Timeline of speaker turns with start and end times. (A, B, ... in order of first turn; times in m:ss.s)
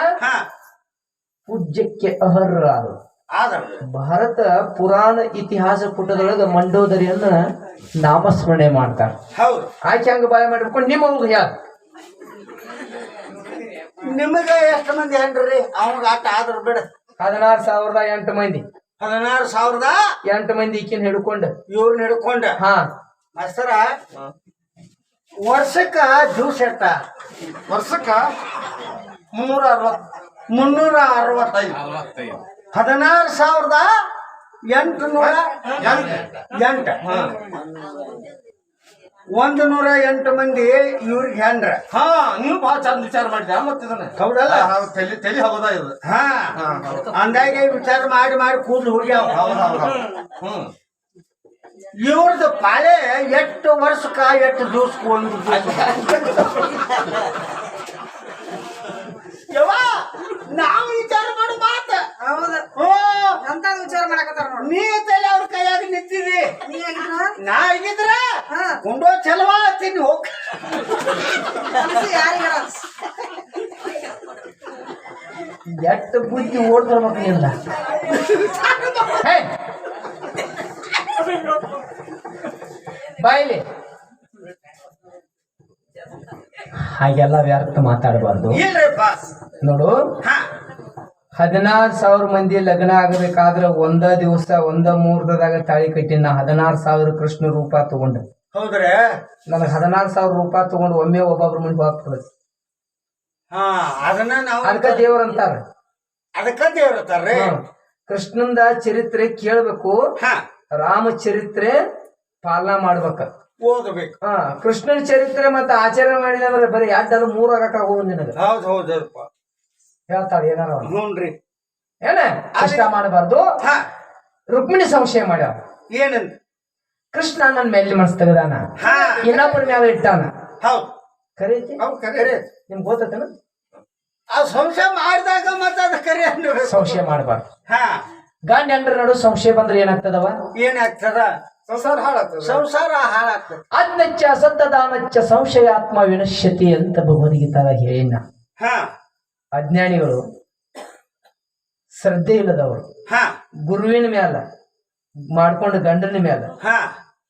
0:01.5-0:03.0 A
0:03.3-0:03.8 B
0:03.9-0:07.4 A
0:08.0-0:09.1 A
0:09.4-0:09.7 B
0:09.8-0:11.5 A
0:14.0-0:16.9 B
0:17.2-0:18.6 A
0:19.0-0:20.0 B
0:20.3-0:21.5 A
0:21.7-0:22.6 B
0:23.4-0:23.9 B
0:25.4-0:27.0 B
0:27.7-0:28.3 C
0:29.3-0:30.0 C
0:30.5-0:31.9 B
0:31.7-0:32.4 C
0:32.7-0:33.9 B
0:34.7-0:35.4 B
0:35.2-0:36.3 C
0:36.5-0:37.0 B
0:37.0-0:37.3 C
0:39.3-0:41.8 B
0:41.9-0:46.0 C
0:44.2-0:44.7 B
0:46.1-0:46.6 B
0:46.6-0:47.1 C
0:47.1-0:49.5 B
0:49.3-0:50.7 C
0:52.0-0:56.1 B
0:55.8-0:56.5 C
0:59.5-1:02.1 B
1:02.2-1:02.7 D
1:02.8-1:03.4 B
1:03.4-1:04.7 D
1:04.6-1:06.5 B
1:06.7-1:07.3 D
1:07.4-1:08.3 B
1:08.5-1:08.8 D
1:08.8-1:10.8 B
1:11.8-1:12.7 D
1:15.7-1:17.6 A
1:18.5-1:19.1 B
1:19.2-1:19.5 A
1:23.2-1:23.6 A
1:26.8-1:28.6 A
1:28.5-1:29.2 B
1:29.6-1:30.0 A
1:31.4-1:38.2 A
1:38.5-1:39.0 B
1:39.5-1:42.3 A
1:43.5-1:45.1 B
1:44.6-1:45.6 A
1:46.4-1:47.5 B
1:47.3-1:50.0 A
1:50.8-1:51.8 A
1:52.4-1:53.3 A
1:53.6-1:54.1 B
1:54.2-1:58.3 A
1:58.4-1:59.3 B
2:00.1-2:00.9 A
2:00.8-2:01.3 B
2:02.0-2:03.5 A
2:02.6-2:02.9 B
2:04.5-2:05.5 A
2:05.9-2:06.3 B
2:07.1-2:08.7 A
2:08.8-2:09.4 B
2:09.2-2:10.3 A
2:10.6-2:10.9 B
2:11.4-2:11.8 A
2:11.8-2:12.3 C
2:12.2-2:12.5 B
2:12.7-2:13.3 A
2:14.3-2:17.0 B
2:16.7-2:17.4 A
2:17.7-2:18.0 B
2:18.5-2:20.4 A
2:20.6-2:21.3 B
2:21.7-2:22.6 C
2:22.4-2:23.6 B
2:23.7-2:28.2 A
2:28.6-2:28.9 B
2:29.5-2:30.3 A
2:32.0-2:32.8 A
2:33.1-2:33.3 B
2:33.7-2:34.4 A
2:35.3-2:36.5 A
2:36.6-2:36.9 B